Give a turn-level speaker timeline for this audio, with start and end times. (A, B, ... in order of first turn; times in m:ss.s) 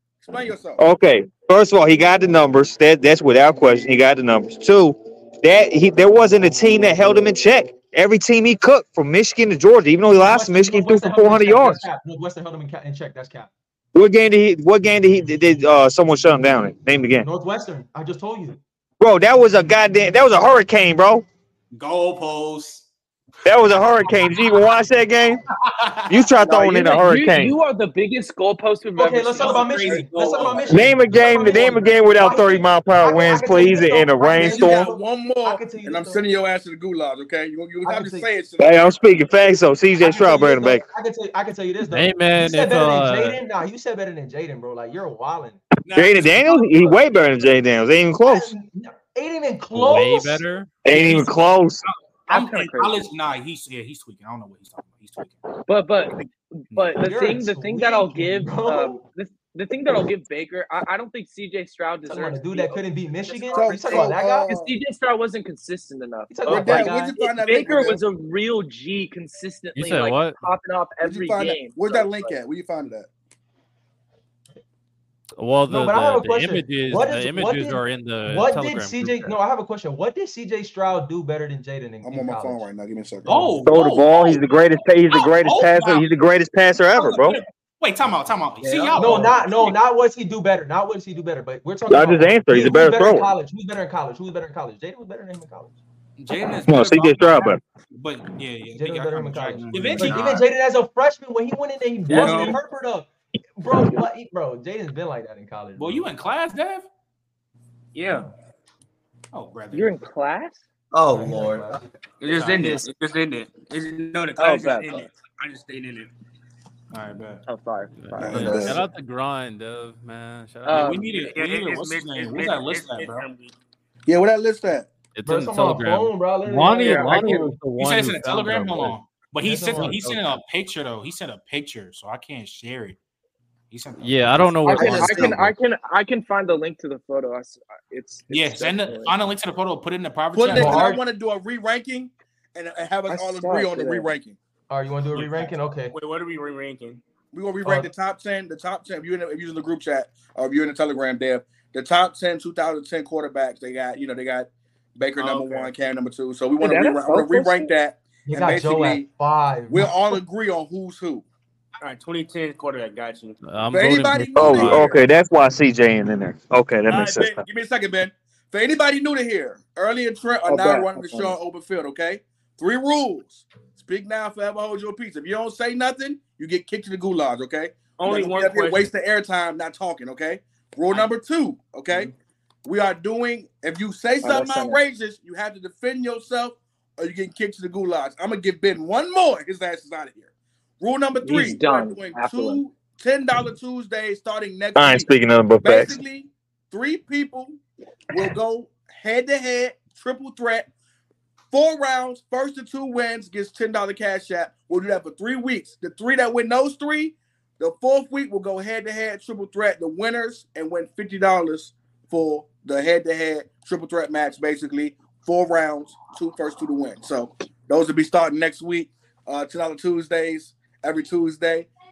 0:00.2-0:00.8 A
0:00.8-0:11.9 B
0:10.1-0:13.5 C
0:13.9-0:17.3 B
0:17.2-0:18.6 C
0:19.0-0:21.2 B
0:21.7-0:22.9 D
0:23.4-0:25.4 B
0:25.6-0:26.2 D
0:26.1-0:27.6 B
0:26.4-0:26.9 A
0:26.7-0:30.7 E
0:29.0-0:36.2 C
0:29.4-0:31.3 D
0:30.7-0:34.9 B
0:34.4-0:39.0 A
0:37.8-0:38.3 C
0:38.6-0:40.8 B
0:40.0-0:45.6 C
0:41.8-0:43.4 F
0:45.9-0:47.0 D
0:45.9-0:48.5 B
0:48.2-0:50.4 C
0:49.7-0:50.7 F
0:50.8-0:51.8 B
0:50.9-0:51.3 D
0:51.8-0:55.4 D
0:52.3-0:53.1 E
0:55.7-1:12.4 E
0:57.0-0:59.0 C
1:02.1-1:04.5 C
1:03.5-1:04.7 A
1:06.3-1:07.1 C
1:06.5-1:08.0 A
1:09.8-1:10.4 F
1:11.0-1:13.1 A
1:15.4-1:19.4 F
1:15.7-1:22.7 C
1:22.0-1:23.6 A
1:23.3-1:26.1 D
1:23.6-1:27.4 B
1:27.0-1:29.8 D
1:28.6-1:29.3 G
1:29.0-1:35.8 C
1:31.9-1:33.3 B
1:36.2-1:40.4 D
1:36.7-1:37.6 B
1:38.8-1:46.1 C
1:39.7-1:40.4 G
1:42.1-1:42.6 H
1:45.8-1:46.9 D
1:47.9-1:48.3 H
1:49.3-1:50.0 D
1:49.7-1:50.6 E
1:50.9-1:51.8 G
1:51.1-1:51.9 C
1:52.2-1:56.1 H
1:52.4-1:52.9 G
1:54.4-1:55.1 E
1:56.9-1:57.4 D
1:57.4-1:58.6 E
1:58.0-2:00.9 F
1:58.2-1:58.8 A
1:58.2-1:58.8 G
2:00.6-2:01.1 E
2:00.7-2:03.2 D
2:01.1-2:03.5 H
2:04.1-2:04.9 A
2:05.1-2:09.0 F
2:05.3-2:07.4 C
2:07.0-2:07.5 E
2:07.8-2:13.0 D
2:09.4-2:10.0 C
2:09.7-2:10.3 F
2:13.7-2:14.8 D
2:14.0-2:15.5 F
2:14.6-2:19.2 E
2:14.7-2:15.4 G
2:18.3-2:20.9 D
2:20.3-2:24.4 A
2:20.5-2:21.0 C
2:23.1-2:24.1 E
2:24.7-2:25.9 C
2:25.1-2:27.0 H
2:27.3-2:39.1 A
2:27.6-2:27.9 C
2:35.2-2:35.7 H
2:36.6-2:37.7 E
2:38.3-2:40.2 C
2:39.7-2:41.2 A
2:41.8-2:43.4 H
2:43.4-2:45.0 F
2:43.7-2:45.0 A
2:44.4-2:47.4 B
2:46.9-3:02.1 A
2:50.5-2:51.4 E
2:58.0-2:58.9 H
3:02.6-3:10.3 A
3:04.2-3:04.8 E
3:10.8-3:15.1 A
3:11.2-3:12.6 E
3:14.8-3:16.0 B
3:15.6-3:17.6 A
3:18.1-3:20.7 A
3:21.5-3:41.7 A